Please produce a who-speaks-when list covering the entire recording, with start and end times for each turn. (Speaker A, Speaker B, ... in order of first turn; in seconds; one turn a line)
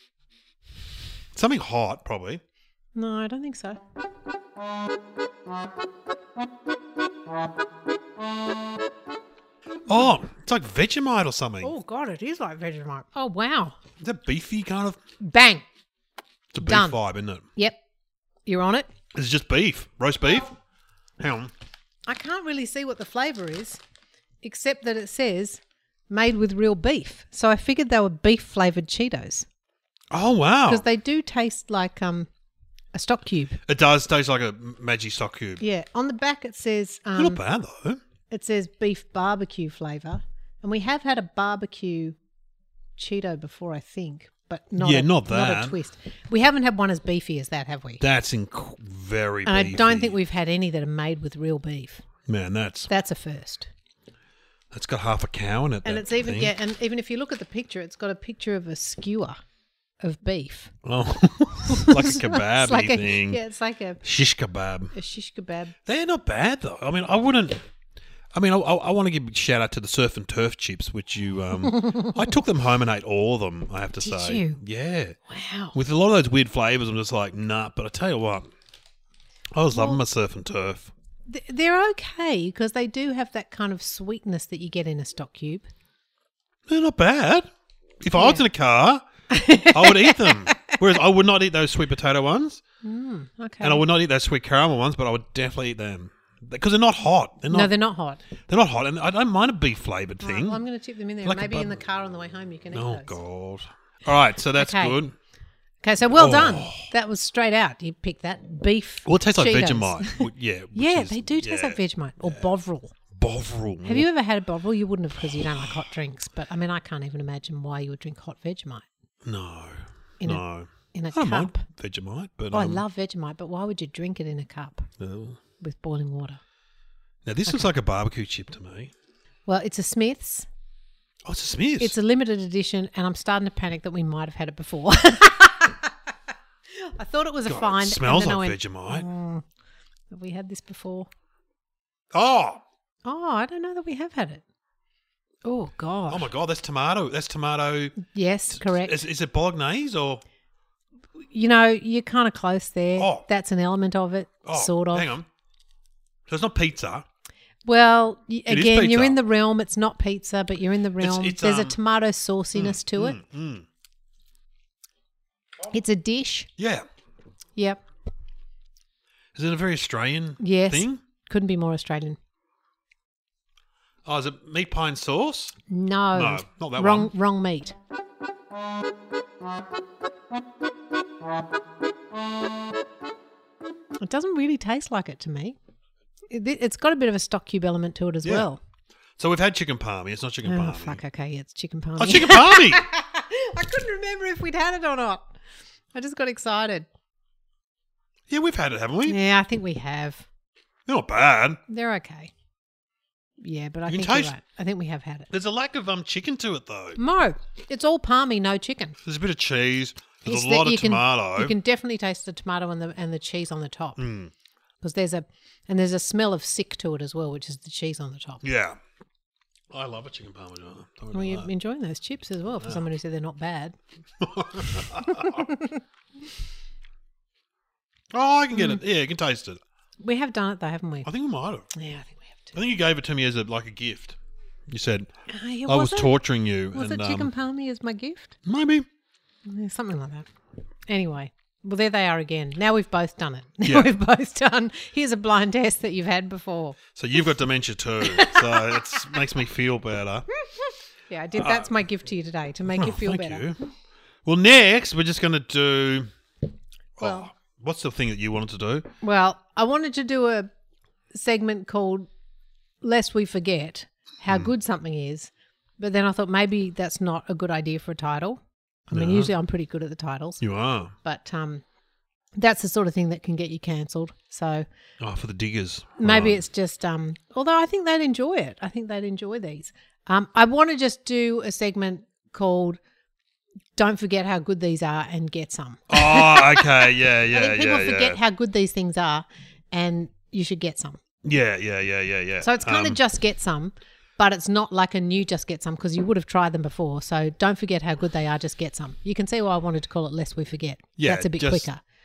Speaker A: 1.4-2.4
Speaker B: 3.0-3.8
Speaker A: 9.9-11.7
Speaker B: 11.6-13.8
Speaker A: 14.0-15.0
Speaker B: 15.2-15.7
Speaker A: 16.5-17.4
Speaker B: 16.6-17.0
Speaker B: 18.5-18.9
Speaker A: 19.1-20.5
Speaker A: 21.2-21.5
Speaker B: 22.1-23.8
Speaker B: 24.4-29.5
Speaker A: 30.1-30.9
Speaker B: 30.7-32.3
Speaker B: 32.9-33.6
Speaker A: 33.6-35.6
Speaker B: 35.6-37.4
Speaker A: 37.2-38.0
Speaker B: 38.3-42.2
Speaker B: 43.0-48.0
Speaker A: 44.8-45.8
Speaker A: 48.0-50.1
Speaker B: 49.5-52.1
Speaker A: 52.3-52.9
Speaker B: 52.9-53.7
Speaker A: 54.7-56.5
Speaker B: 55.8-59.4
Speaker B: 60.0-60.7
Speaker A: 60.8-63.4
Speaker B: 61.6-64.0
Speaker A: 64.0-64.9
Speaker B: 64.9-65.8
Speaker A: 65.8-67.6
Speaker A: 68.3-75.2
Speaker B: 74.0-74.6
Speaker B: 75.3-75.8
Speaker A: 75.7-78.5
Speaker A: 79.5-80.9
Speaker B: 79.7-80.0
Speaker B: 81.3-85.7
Speaker A: 86.7-87.5
Speaker A: 88.0-89.1
Speaker B: 88.2-88.5
Speaker B: 89.3-90.8
Speaker A: 89.7-92.6
Speaker B: 92.8-93.8
Speaker A: 93.6-97.7
Speaker B: 97.5-98.2
Speaker A: 98.5-100.6
Speaker B: 100.2-103.2
Speaker A: 101.2-101.8
Speaker A: 102.7-105.2
Speaker B: 104.5-105.0
Speaker B: 105.8-113.0
Speaker A: 106.1-106.9
Speaker A: 109.1-112.4
Speaker A: 113.2-114.1
Speaker B: 113.8-118.9
Speaker A: 119.2-122.8
Speaker B: 120.2-121.6
Speaker B: 122.5-124.9
Speaker A: 125.0-125.4
Speaker B: 125.6-126.4
Speaker A: 127.2-128.9
Speaker B: 129.5-130.5
Speaker A: 131.2-131.9
Speaker B: 131.8-136.1
Speaker B: 136.7-139.5
Speaker A: 137.5-139.1
Speaker B: 140.1-141.1
Speaker A: 142.1-142.6
Speaker B: 143.1-144.4
Speaker B: 145.4-146.3
Speaker A: 146.1-148.0
Speaker B: 148.0-149.0
Speaker A: 148.5-150.2
Speaker B: 151.3-155.1
Speaker A: 153.0-153.3
Speaker A: 154.4-155.3
Speaker A: 156.3-157.1
Speaker B: 157.7-163.2
Speaker A: 158.5-159.2
Speaker A: 161.0-161.8
Speaker A: 162.6-163.7
Speaker B: 165.7-166.5
Speaker A: 166.6-166.9
Speaker B: 167.6-167.8
Speaker A: 169.3-171.0
Speaker B: 170.4-172.2
Speaker A: 174.1-175.6
Speaker B: 175.7-177.8
Speaker A: 176.1-177.1
Speaker B: 184.0-185.6
Speaker B: 186.3-188.6
Speaker A: 189.2-191.0
Speaker B: 190.4-195.4
Speaker A: 192.0-192.9
Speaker B: 195.9-196.9
Speaker A: 198.3-199.2
Speaker B: 199.1-200.3
Speaker A: 200.9-201.6
Speaker B: 201.7-202.3
Speaker B: 203.4-205.3
Speaker A: 203.9-204.3
Speaker A: 205.3-207.0
Speaker B: 207.0-209.0
Speaker A: 209.1-211.6
Speaker B: 210.2-214.0
Speaker A: 214.0-214.3
Speaker B: 214.8-218.4
Speaker A: 218.4-218.8
Speaker A: 219.7-221.5
Speaker B: 221.1-223.8
Speaker A: 224.2-225.5
Speaker B: 224.6-225.8
Speaker A: 228.1-229.6
Speaker B: 228.5-228.8
Speaker B: 230.0-231.1
Speaker A: 231.0-231.7
Speaker B: 231.7-232.5
Speaker A: 232.5-234.2
Speaker A: 234.7-235.1
Speaker B: 235.3-236.1
Speaker A: 235.7-237.3
Speaker B: 236.7-238.4
Speaker A: 238.4-238.9
Speaker B: 239.4-240.3
Speaker B: 240.9-246.8
Speaker A: 243.6-243.9
Speaker A: 246.9-250.3
Speaker B: 248.0-248.9
Speaker B: 250.4-253.5
Speaker A: 251.3-251.7
Speaker A: 252.7-253.6
Speaker A: 254.2-256.1
Speaker A: 257.0-258.9
Speaker B: 257.0-257.3
Speaker B: 259.0-260.5
Speaker B: 261.1-262.1
Speaker B: 262.8-270.4
Speaker A: 268.9-269.3
Speaker A: 270.4-270.9
Speaker B: 271.0-271.6
Speaker B: 272.4-274.7
Speaker A: 275.0-276.4
Speaker B: 276.0-282.8
Speaker B: 283.8-291.0
Speaker A: 285.9-288.2
Speaker A: 291.2-293.0
Speaker B: 292.4-301.8
Speaker A: 301.0-301.7